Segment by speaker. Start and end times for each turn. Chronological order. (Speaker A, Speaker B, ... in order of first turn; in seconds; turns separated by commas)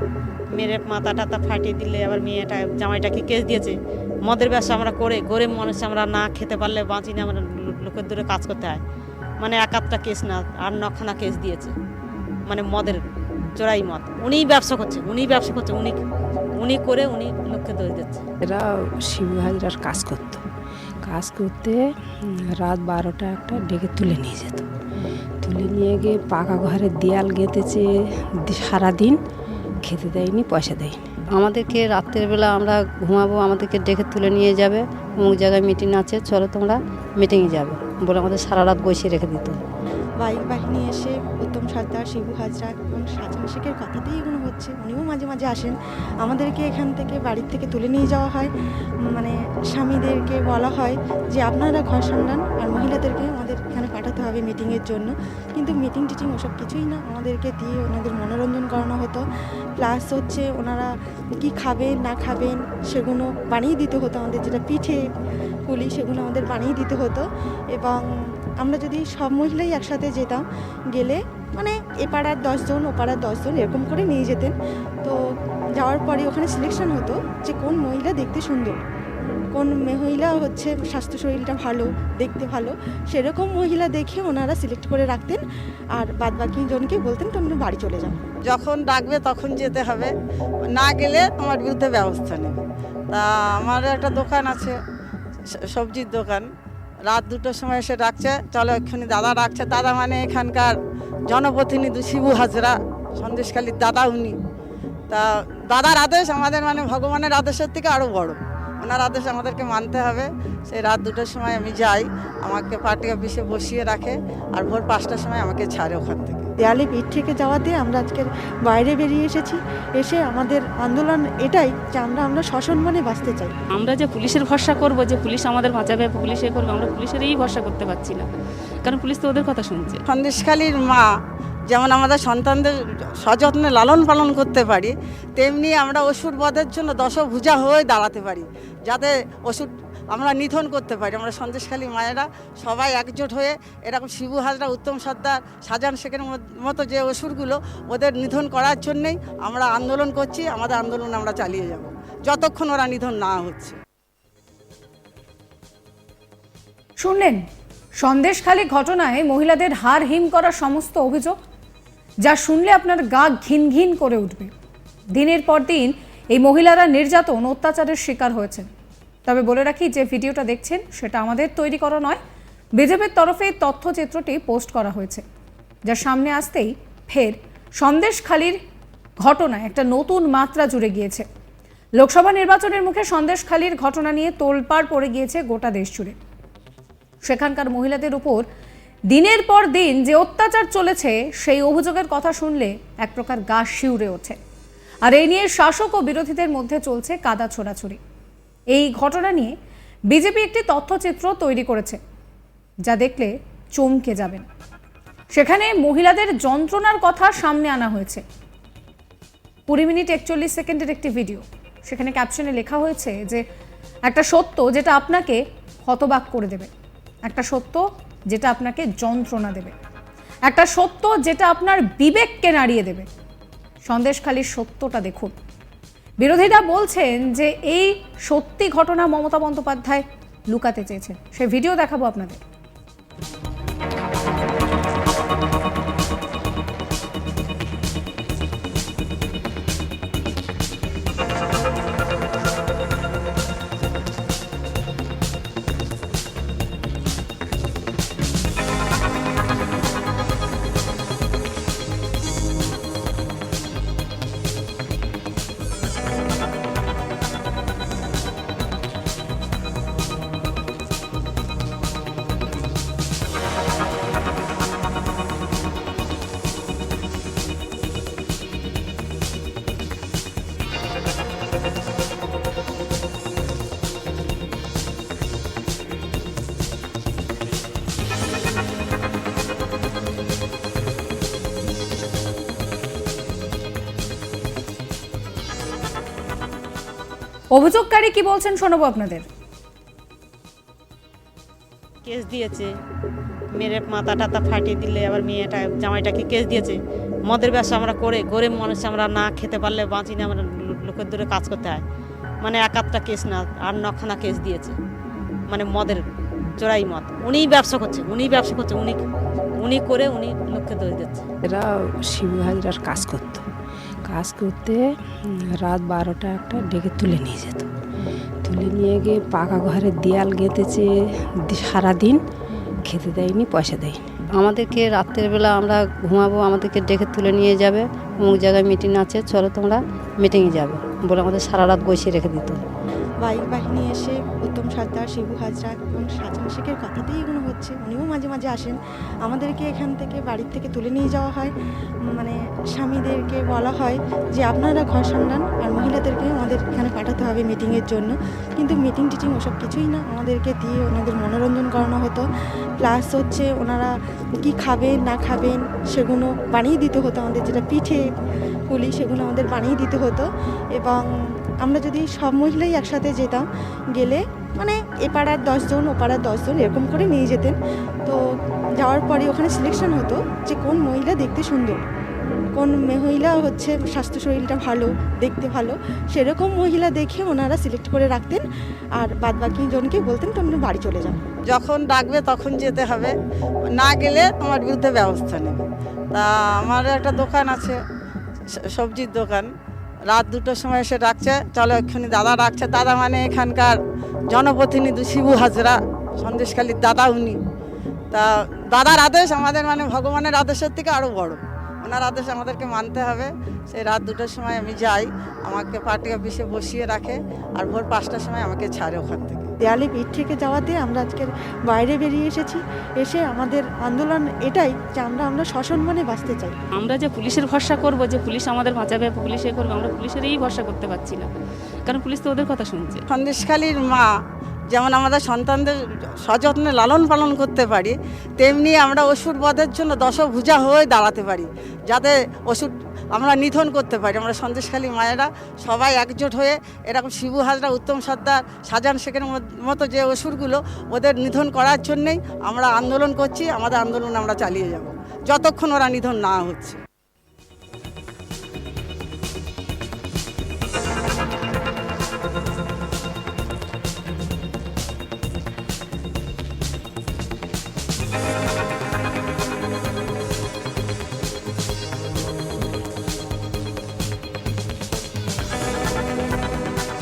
Speaker A: 0.5-8.8, Speaker A: 9.4-11.7, Speaker A: 12.5-13.0, Speaker A: 13.6-16.0, Speaker A: 16.6-18.2, Speaker B: 18.4-20.4, Speaker B: 21.0-24.7, Speaker B: 25.4-27.9, Speaker B: 28.4-29.2, Speaker B: 29.8-31.1, Speaker C: 31.4-39.6, Speaker D: 40.2-48.5, Speaker D: 49.1-59.2, Speaker D: 59.8-60.9, Speaker D: 61.4-65.0, Speaker D: 65.7-68.0, Speaker D: 68.6-75.2, Speaker D: 75.8-78.8, Speaker D: 79.5-85.4, Speaker D: 85.9-88.2, Speaker E: 88.4-90.1, Speaker E: 90.7-94.8, Speaker E: 95.7-96.5, Speaker E: 97.0-100.7, Speaker E: 101.3-104.4, Speaker E: 105.1-116.5, Speaker D: 116.6-123.5, Speaker F: 123.8-128.3, Speaker F: 128.8-130.0, Speaker E: 130.1-131.1, Speaker E: 131.7-153.8, Speaker G: 157.0-157.4, Speaker G: 158.0-161.3, Speaker G: 162.2-164.5, Speaker G: 165.1-168.7, Speaker G: 169.2-172.2, Speaker G: 172.8-175.2, Speaker G: 175.8-178.6, Speaker G: 179.2-181.2, Speaker G: 182.0-186.2, Speaker G: 187.2-188.4, Speaker G: 189.1-194.4, Speaker G: 195.0-198.0, Speaker G: 198.7-199.5, Speaker G: 200.1-202.0, Speaker G: 202.8-204.5, Speaker G: 205.3-208.2, Speaker G: 209.7-213.4, Speaker G: 214.0-216.7, Speaker G: 217.2-219.7, Speaker G: 220.4-223.1, Speaker G: 223.8-225.3, Speaker G: 226.2-232.4, Speaker G: 287.5-289.2, Speaker A: 292.1-292.7, Speaker A: 293.5-301.8, Speaker A: 302.4-304.8, Speaker A: 305.5-306.0, Speaker A: 306.6-309.0, Speaker A: 309.6-311.2, Speaker B: 311.5-313.5, Speaker B: 314.1-317.7, Speaker B: 318.4-320.9, Speaker B: 321.4-322.2, Speaker B: 322.8-324.0, Speaker C: 324.3-332.6, Speaker D: 333.2-341.5, Speaker D: 342.1-352.2, Speaker D: 352.8-353.9, Speaker D: 354.4-358.0, Speaker D: 358.7-361.1, Speaker D: 361.6-368.2, Speaker D: 368.8-371.8, Speaker D: 372.6-378.4, Speaker D: 379.0-381.2, Speaker E: 381.4-383.1, Speaker E: 383.7-387.8, Speaker E: 388.7-389.5, Speaker E: 390.1-393.8, Speaker E: 394.3-397.4, Speaker E: 398.1-409.5, Speaker D: 409.6-416.5, Speaker F: 416.8-421.3, Speaker F: 421.9-423.0, Speaker E: 423.1-424.1, Speaker E: 424.7-446.8